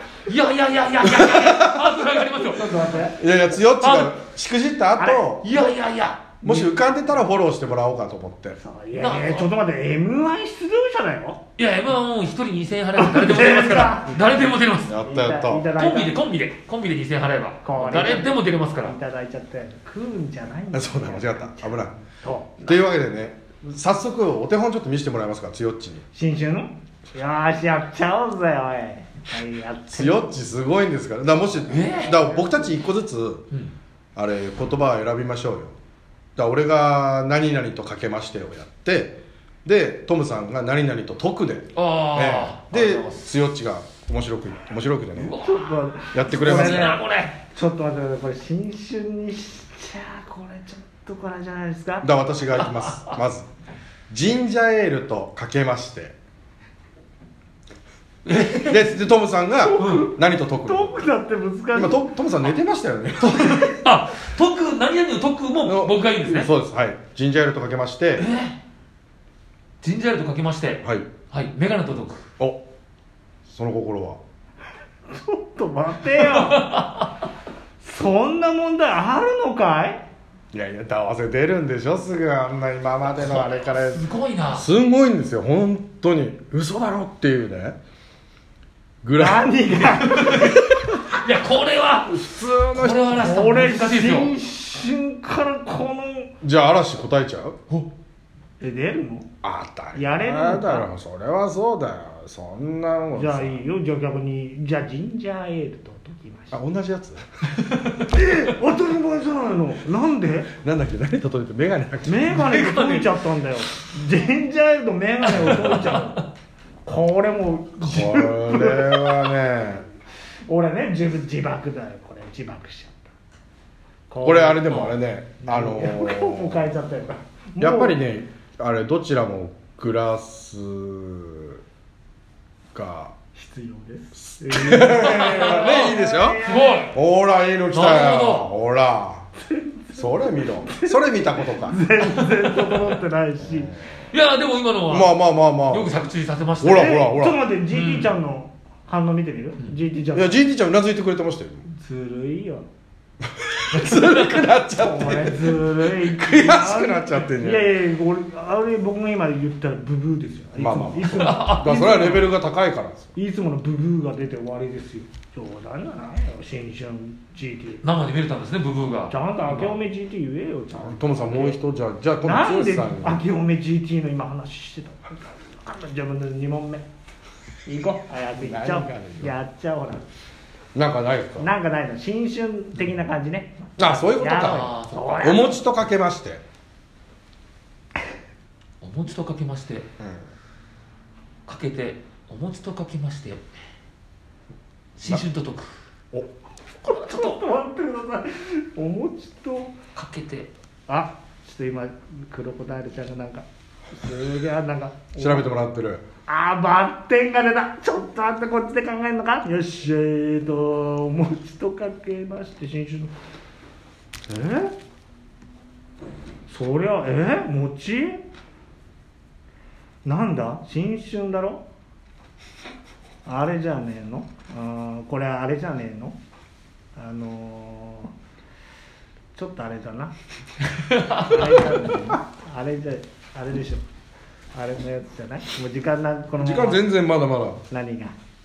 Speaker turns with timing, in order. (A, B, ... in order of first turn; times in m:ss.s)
0:00.2-0:02.8 A
0:01.0-0:01.8 B
0:02.4-0:03.2 C
0:03.2-0:05.5 B
0:03.8-0:04.2 A
0:05.0-0:05.4 C
0:05.4-0:06.3 A
0:06.4-0:06.7 C
0:06.4-0:08.6 B
0:08.6-0:11.4 C
0:09.0-0:09.5 A
0:11.6-0:15.0 A
0:13.0-0:16.2 C
0:14.8-0:15.7 B
0:15.7-0:19.0 A
0:17.6-0:22.8 C
0:20.7-0:21.9 B
0:22.6-0:26.0 B
0:26.1-0:30.3 C
0:29.9-0:33.4 B
0:31.7-0:32.2 A
0:31.9-0:32.8 C
0:34.2-0:35.8 B
0:36.4-0:45.3 B
0:41.7-0:43.2 A
0:45.2-0:47.4 A
0:45.4-0:52.1 C
0:46.1-0:47.0 B
0:52.0-0:53.5 B
0:52.7-0:53.2 A
0:54.1-0:56.2 B
0:58.2-0:58.9 A
0:58.6-1:01.0 B
0:59.6-1:02.2 C
0:59.8-1:00.1 A
1:01.7-1:03.8 B
1:03.4-1:06.5 A
1:05.6-1:08.3 B
1:08.2-1:08.6 A
1:09.8-1:12.2 A
1:13.5-1:14.2 B
1:15.1-1:16.9 C
1:16.4-1:17.0 A
1:17.8-1:20.0 C
1:20.5-1:27.8 B
1:23.2-1:24.7 A
1:29.0-1:30.5 B
1:29.2-1:30.9 C
1:31.1-1:34.3 A
1:32.1-1:33.2 B
1:33.1-1:36.3 C
1:36.4-1:37.6 B
1:38.6-1:39.3 C
1:39.4-1:43.6 B
1:39.9-1:40.9 C
1:43.1-1:46.6 C
1:46.5-1:47.2 B
1:47.6-1:48.0 A
1:48.0-1:50.5 C
1:50.5-1:52.6 B
1:52.0-1:56.2 C
1:52.3-1:53.2 A
1:55.3-1:56.2 A
1:56.8-1:59.3 C
1:57.8-1:59.8 B
2:00.5-2:03.1 C
2:04.1-2:04.9 C
2:04.2-2:06.7 B
2:04.7-2:05.0 A
2:05.4-2:08.0 C
2:07.6-2:11.6 B
2:12.7-2:13.1 B
2:13.3-2:16.9 C
2:14.2-2:16.4 B
2:15.2-2:15.9 A
2:16.4-2:17.0 A
2:16.9-2:19.2 B
2:17.7-2:18.5 A
2:19.5-2:23.8 C
2:19.9-2:21.8 B
2:22.0-2:23.0 A
2:24.1-2:26.9 A
2:24.9-2:25.9 B
2:26.6-2:27.4 B
2:26.7-2:30.4 C
2:27.7-2:28.1 A
2:30.1-2:31.6 B
2:31.7-2:32.7 C
2:33.2-2:37.7 B
2:33.7-2:34.5 A
2:34.7-2:42.3 C
2:40.6-2:43.1 B
2:41.1-2:41.9 A
2:43.1-2:47.8 C
2:47.8-2:49.7 A
2:49.1-2:51.6 C
2:50.7-2:53.2 B
2:52.2-2:56.8 C
2:57.6-3:00.0 C
2:58.3-2:59.3 B
3:00.7-3:01.5 B
3:01.4-3:05.6 C
3:03.8-3:06.4 B
3:04.2-3:05.4 A
3:08.8-3:09.8 A
3:10.0-3:10.2 B
3:11.5-3:13.4 A
3:15.0-3:15.7 A
3:16.8-3:19.7 C
3:16.9-3:17.4 A
3:19.9-3:20.5 A
3:20.9-3:25.5 C
3:25.2-3:26.0 B
3:26.3-3:33.1 C
3:34.3-3:34.7 C
3:36.5-3:38.2 C
3:40.0-3:41.6 C
3:43.2-3:46.2 C
3:47.0-3:48.1 C
3:49.3-3:50.1 C
3:50.9-3:51.3 A
3:51.0-3:53.8 C
3:54.5-3:56.8 C
3:56.4-3:57.6 B
3:57.7-3:58.1 C